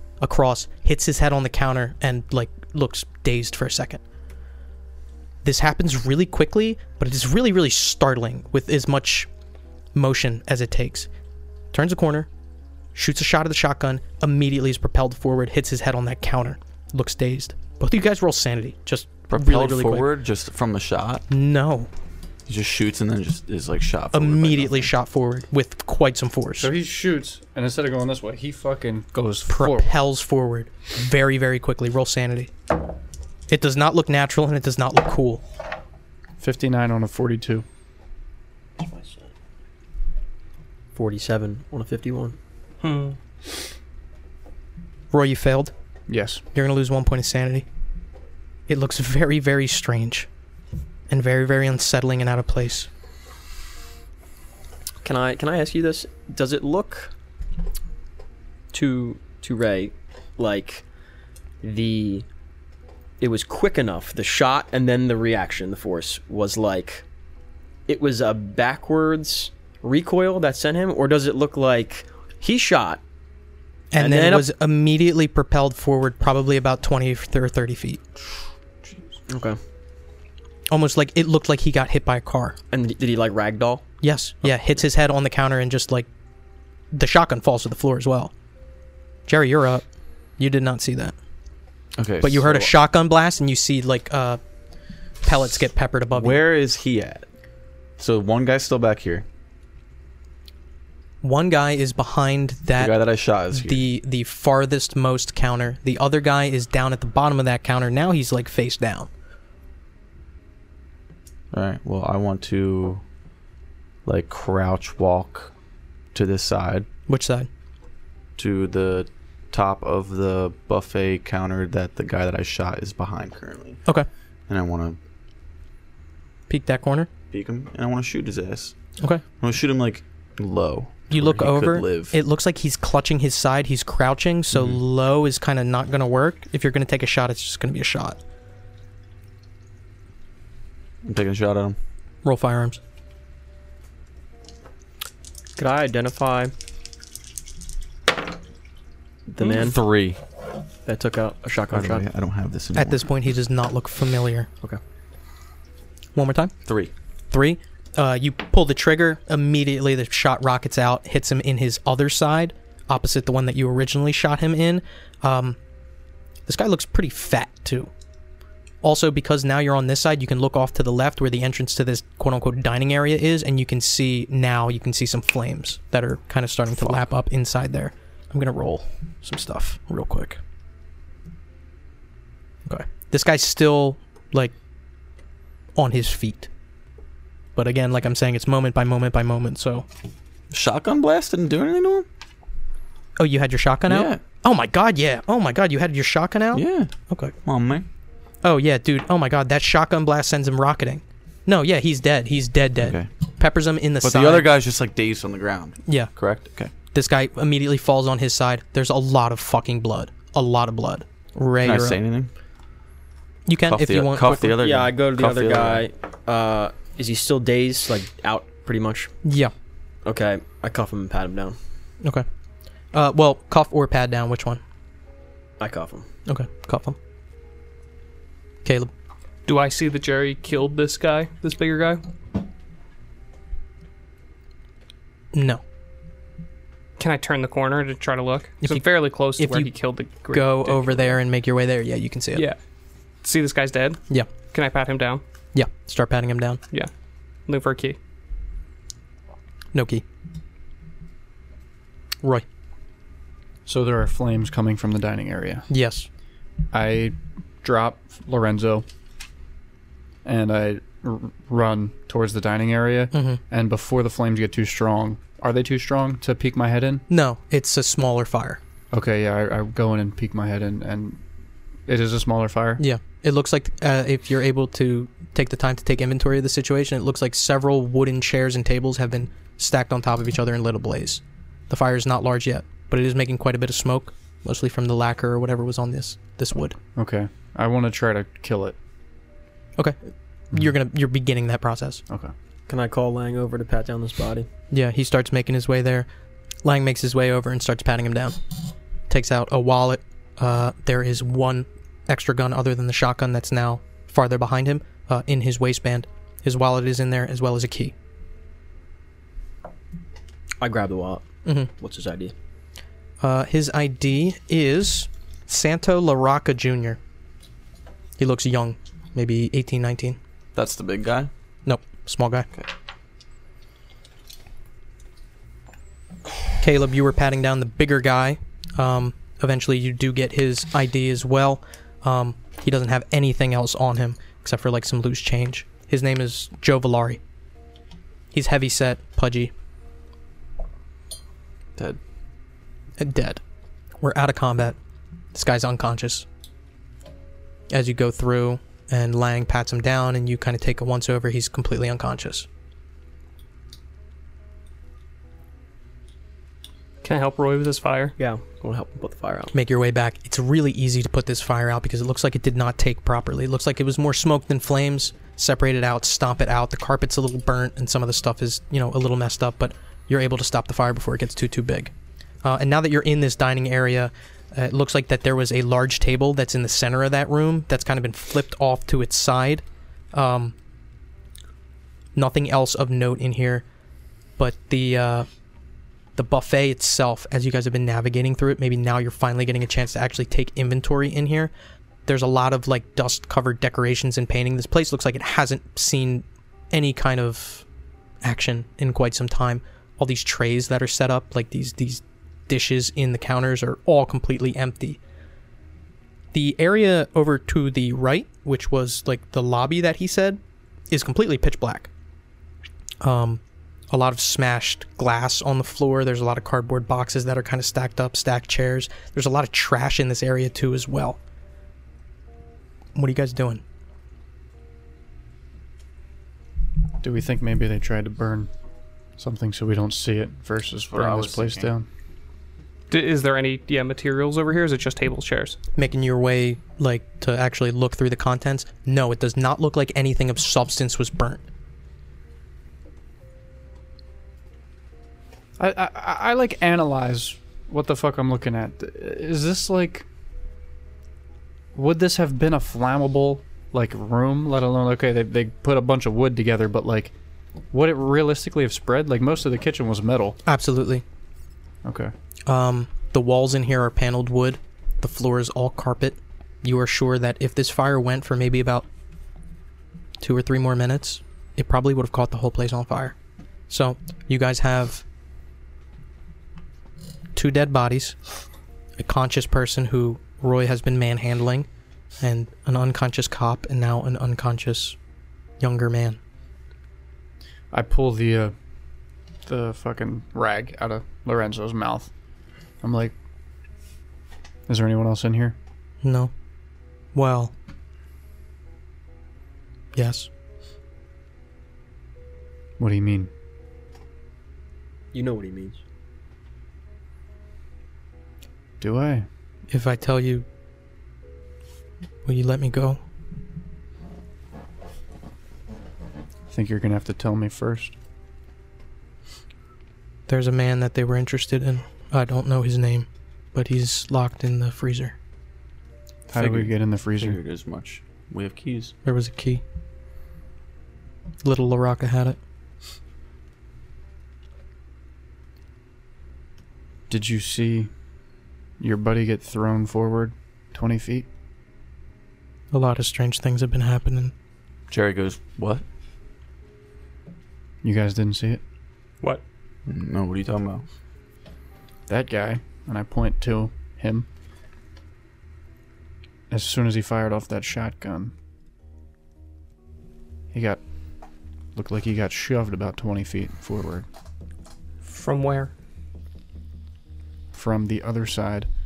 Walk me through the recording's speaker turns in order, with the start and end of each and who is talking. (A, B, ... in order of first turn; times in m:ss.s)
0:00.2-0:04.0 A
0:05.4-0:09.3 A
0:10.0-0:11.1 A
0:11.7-0:12.3 A
0:13.0-0:20.1 A
0:19.3-0:21.3 B
0:21.3-0:21.9 A
0:22.5-0:24.9 B
0:24.1-0:26.7 A
0:26.6-0:29.9 C
0:29.5-0:32.5 A
0:33.5-0:35.4 A
0:36.4-0:37.7 C
0:38.8-0:39.3 D
0:41.0-0:42.4 D
0:42.8-0:43.2 E
0:45.1-0:45.7 A
0:46.1-0:46.4 C
0:46.5-0:47.7 A
0:48.7-0:50.3 A
0:51.1-0:52.9 A
0:55.0-0:57.1 D
0:58.7-1:00.8 D
1:01.6-1:02.3 D
1:03.2-1:07.0 D
1:07.9-1:13.0 D
1:13.9-1:18.0 A
1:14.0-1:14.5 D
1:19.3-1:19.6 D
1:20.7-1:22.6 A
1:22.7-1:23.9 D
1:24.0-1:26.1 A
1:26.9-1:28.3 A
1:29.3-1:29.8 A
1:30.4-1:31.2 A
1:32.0-1:32.7 B
1:32.2-1:34.4 A
1:35.2-1:36.4 A
1:36.1-1:37.3 B
1:38.0-1:39.3 B
1:41.2-1:43.0 A
1:42.8-1:43.9 B
1:43.5-1:49.1 A
1:51.5-1:53.0 B
1:54.1-1:55.5 B
1:56.1-1:56.9 B
1:57.1-1:57.5 A
1:58.4-2:03.8 B
2:04.5-2:05.0 B
2:06.5-2:07.1 A
2:07.3-2:08.8 B
2:09.4-2:12.2 B
2:11.1-2:18.2 A
2:14.5-2:14.8 B
2:21.0-2:21.8 B
2:22.2-2:22.8 A
2:25.6-2:26.5 D
2:29.4-2:29.8 D
2:29.4-2:30.2 B
2:30.9-2:32.1 D
2:31.7-2:33.1 B
2:32.8-2:34.5 A
2:36.2-2:36.5 A
2:36.6-2:36.9 B
2:37.3-2:45.6 A
2:46.5-2:47.9 A
2:48.8-3:00.4 A
3:02.7-3:04.5 A
3:05.8-3:06.5 A
3:07.6-3:09.9 A
3:10.5-3:12.1 B
3:13.2-3:17.3 A
3:13.9-3:14.2 B
3:16.5-3:16.9 B
3:17.4-3:17.9 B
3:18.4-3:24.5 A
3:22.8-3:23.1 B
3:24.0-3:26.7 B
3:25.9-3:26.1 A
3:26.9-3:32.0 A
3:31.6-3:32.3 B
3:33.5-3:34.6 A
3:33.6-3:35.9 B
3:34.5-3:39.1 D
3:39.2-3:39.5 A
3:40.0-3:41.6 D
3:42.9-3:44.6 A
3:45.6-3:46.1 D
3:46.3-3:47.0 A
3:48.6-3:48.9 A
3:49.5-3:52.0 E
3:55.3-3:55.6 A
3:57.0-4:01.2 E
3:59.4-3:59.7 A
4:00.3-4:02.5 A
4:03.2-4:05.2 E
4:05.5-4:06.6 A
4:07.5-4:08.0 E
4:09.7-4:10.0 A
4:13.7-4:15.7 C
4:15.7-4:16.1 A
4:16.7-4:18.9 C
4:20.2-4:27.0 C
4:23.1-4:23.4 A
4:27.1-4:28.6 A
4:28.9-4:31.2 C
4:31.9-4:32.8 C
4:32.8-4:46.8 A
4:47.0-4:48.8 C
4:50.5-4:52.0 A
4:52.7-4:54.5 D
4:54.7-4:56.1 A
4:56.6-4:58.4 A
4:59.1-5:07.9 A
5:10.6-5:12.3 D
5:13.2-5:17.0 A
5:18.2-5:20.2 A
5:20.6-5:21.3 B
5:21.7-5:22.5 A
5:26.6-5:37.2 A
5:38.3-5:39.5 A
5:43.0-5:43.4 A
5:44.0-5:44.8 A
5:45.3-5:46.3 A
5:47.7-5:52.5 A
5:57.0-5:58.2 E
5:58.2-5:59.5 D
5:59.5-6:11.9 A
6:12.4-6:20.6 A
6:22.2-6:23.6 A
6:24.4-6:25.3 A
6:26.2-6:31.5 A
6:32.1-6:37.6 A
6:38.2-6:45.0 A
6:46.3-6:51.9 A
6:53.0-7:01.2 A
7:03.0-7:03.6 A
7:07.0-7:08.5 C
7:09.2-7:11.9 C
7:10.9-7:11.7 B
7:12.9-7:15.6 E
7:15.8-7:21.4 A
7:25.6-7:30.1 C
7:31.7-7:37.1 C
7:37.7-7:40.4 C
7:40.5-7:41.0 A
7:41.8-7:42.1 C
7:42.5-7:48.9 A
7:50.2-7:53.2 A
7:53.7-7:55.0 A
7:57.4-7:58.2 A
7:59.0-8:01.7 A
8:02.2-8:05.0 A
8:05.6-8:06.2 A
8:07.7-8:08.5 C
8:09.4-8:12.1 C
8:12.8-8:13.2 C
8:14.7-8:15.6 C
8:16.0-8:16.3 A
8:17.1-8:17.5 A
8:20.0-8:20.3 A
8:22.8-8:23.3 C
8:25.1-8:25.8 D
8:28.8-8:29.3 C
8:29.7-8:30.5 A
8:32.2-8:33.0 A
8:36.5-8:38.0 C
8:40.3-8:45.2 A
8:46.3-8:48.9 B
8:46.3-8:47.4 C
8:49.0-8:49.6 A
8:51.4-8:52.4 A
8:57.1-8:57.9 C
8:58.8-9:01.3 C
9:02.7-9:04.3 A
9:04.9-9:05.8 B
9:07.8-9:08.6 C
9:09.9-9:10.9 B
9:12.1-9:14.3 C
9:16.5-9:18.3 C
9:20.5-9:20.8 C
9:21.8-9:24.1 C
9:25.0-9:25.7 E
9:27.5-9:28.7 C